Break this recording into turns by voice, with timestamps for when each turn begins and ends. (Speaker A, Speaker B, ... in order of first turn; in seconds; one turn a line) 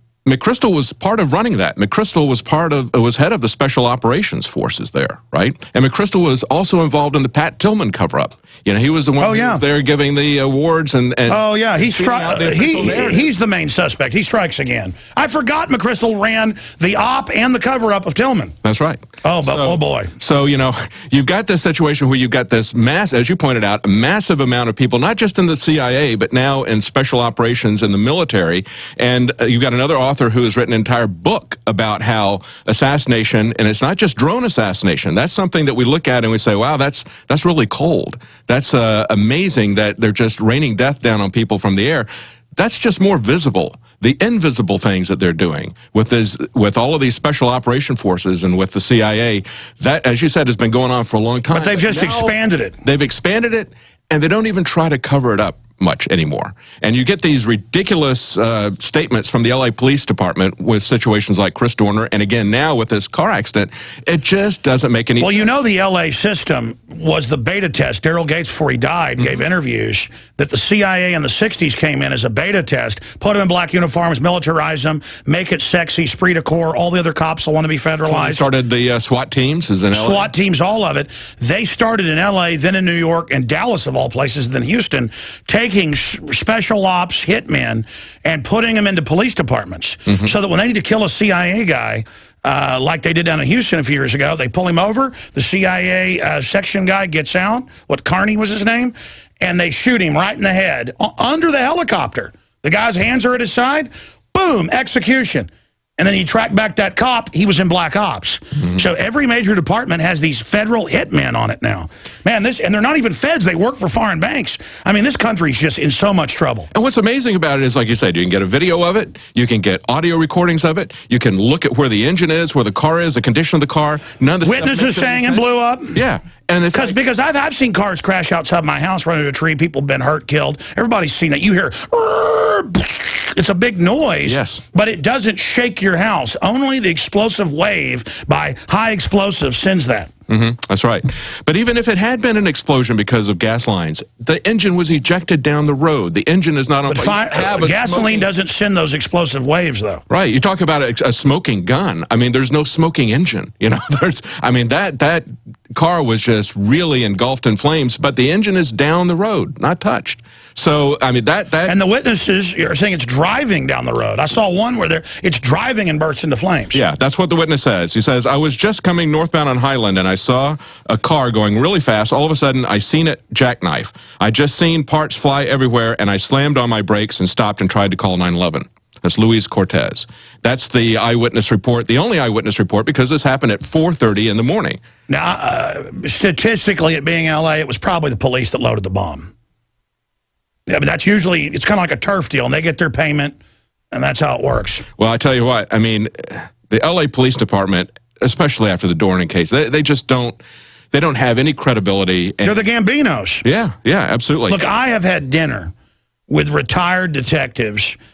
Speaker A: 0.2-13.3
Speaker B: 9.2-9.6
Speaker B: 11.3-18.5
Speaker A: 18.6-65.5
Speaker B: 19.2-20.1
Speaker B: 51.5-52.8
Speaker B: 65.2-78.5
Speaker A: 78.0-80.3
Speaker B: 79.9-116.7
Speaker A: 116.7-127.0
Speaker B: 124.4-126.0
Speaker B: 126.7-140.1
Speaker A: 134.3-134.6
Speaker A: 140.3-148.3
Speaker B: 146.9-150.0
Speaker A: 150.1-161.8
Speaker B: 161.7-166.8
Speaker A: 166.7-184.8
Speaker B: 185.1-189.3
Speaker B: 190.7-193.4
Speaker B: 193.9-194.8
Speaker A: 195.0-200.4
Speaker A: 200.9-202.6
Speaker B: 202.4-203.4
Speaker A: 203.4-204.7
Speaker B: 204.5-205.7
Speaker B: 206.3-207.9